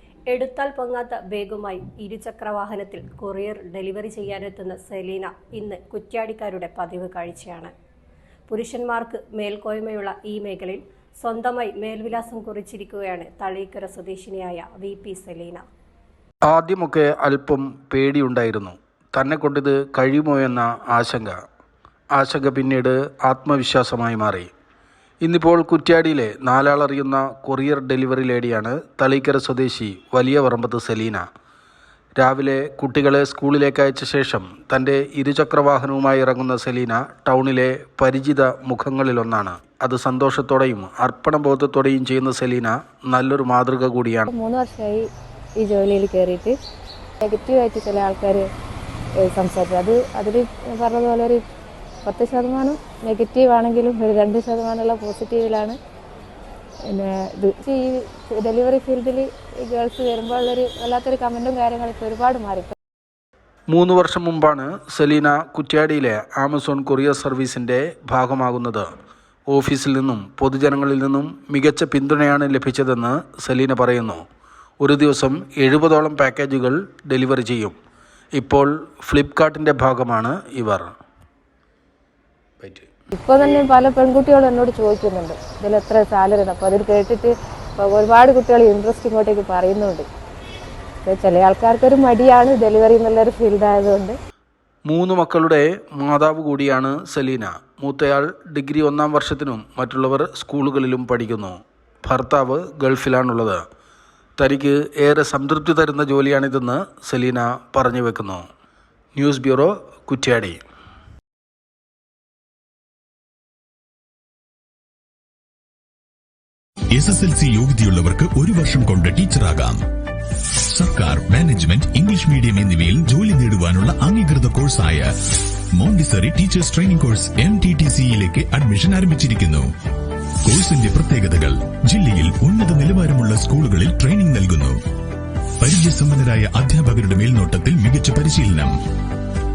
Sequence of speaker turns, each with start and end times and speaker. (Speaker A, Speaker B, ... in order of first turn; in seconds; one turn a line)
Speaker A: 0.3-7.7
Speaker A: 8.5-15.6
Speaker B: 16.5-21.4
Speaker B: 22.1-24.5
Speaker B: 25.2-31.2
Speaker B: 32.2-44.3
Speaker C: 44.3-45.0
Speaker C: 45.6-46.5
Speaker C: 47.2-48.5
Speaker C: 49.2-51.4
Speaker C: 52.0-55.8
Speaker C: 56.9-62.7
Speaker B: 63.7-68.9
Speaker B: 69.5-74.2
Speaker B: 74.8-77.8
Speaker B: 78.3-80.9
Speaker B: 82.6-82.9
Speaker C: 83.1-90.0
Speaker C: 91.0-94.2
Speaker B: 94.9-103.6
Speaker B: 104.4-108.4
Speaker B: 109.1-110.6
Speaker D: 116.9-119.8
Speaker D: 120.7-125.1
Speaker D: 125.7-129.7
Speaker D: 130.4-134.8
Speaker D: 135.6-138.7